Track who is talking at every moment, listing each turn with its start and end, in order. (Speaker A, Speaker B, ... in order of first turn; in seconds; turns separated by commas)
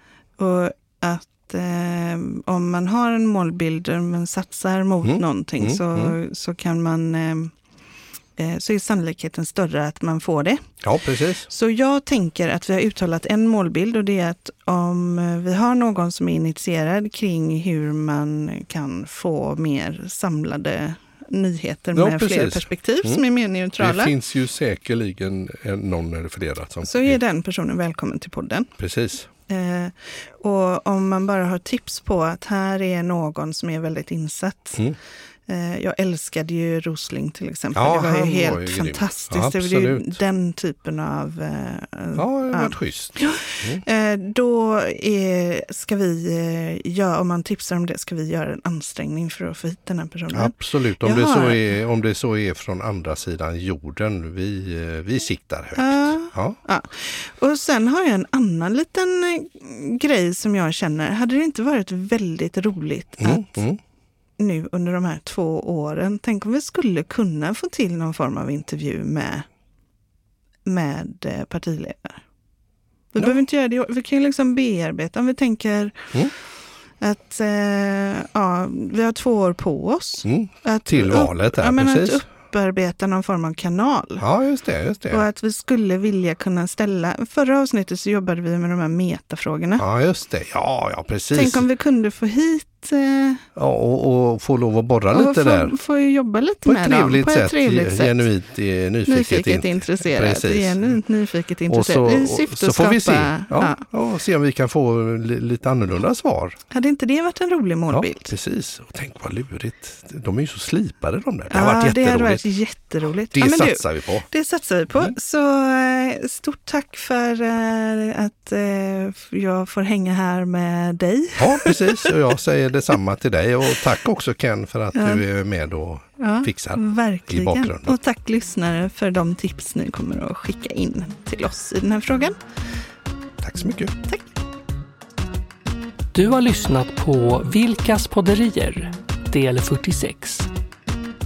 Speaker A: 0.4-7.5, Speaker B: 5.0-6.2, Speaker A: 8.4-10.7, Speaker B: 10.8-11.5, Speaker A: 11.5-24.1, Speaker B: 21.9-23.2, Speaker B: 23.8-27.2, Speaker A: 26.8-28.7, Speaker B: 28.8-29.3, Speaker A: 29.5-34.9, Speaker A: 35.5-51.7, Speaker B: 37.7-40.2, Speaker B: 42.1-43.8, Speaker B: 50.3-56.6, Speaker A: 55.8-63.6, Speaker B: 63.2-63.8, Speaker A: 64.4-69.5, Speaker A: 70.7-72.2, Speaker A: 73.1-76.4, Speaker A: 77.0-84.2, Speaker B: 80.2-82.2, Speaker B: 84.2-85.2, Speaker A: 85.1-89.8, Speaker B: 89.8-91.6, Speaker A: 91.3-93.4, Speaker B: 93.5-95.8, Speaker A: 95.1-98.3, Speaker B: 96.6-100.9, Speaker A: 99.0-103.8, Speaker B: 101.7-106.6, Speaker A: 106.7-108.3, Speaker B: 107.9-112.4, Speaker A: 111.5-122.2, Speaker B: 113.3-114.2, Speaker B: 121.4-128.0, Speaker A: 124.9-125.2, Speaker A: 126.2-132.3, Speaker B: 133.4-133.9, Speaker C: 136.1-140.5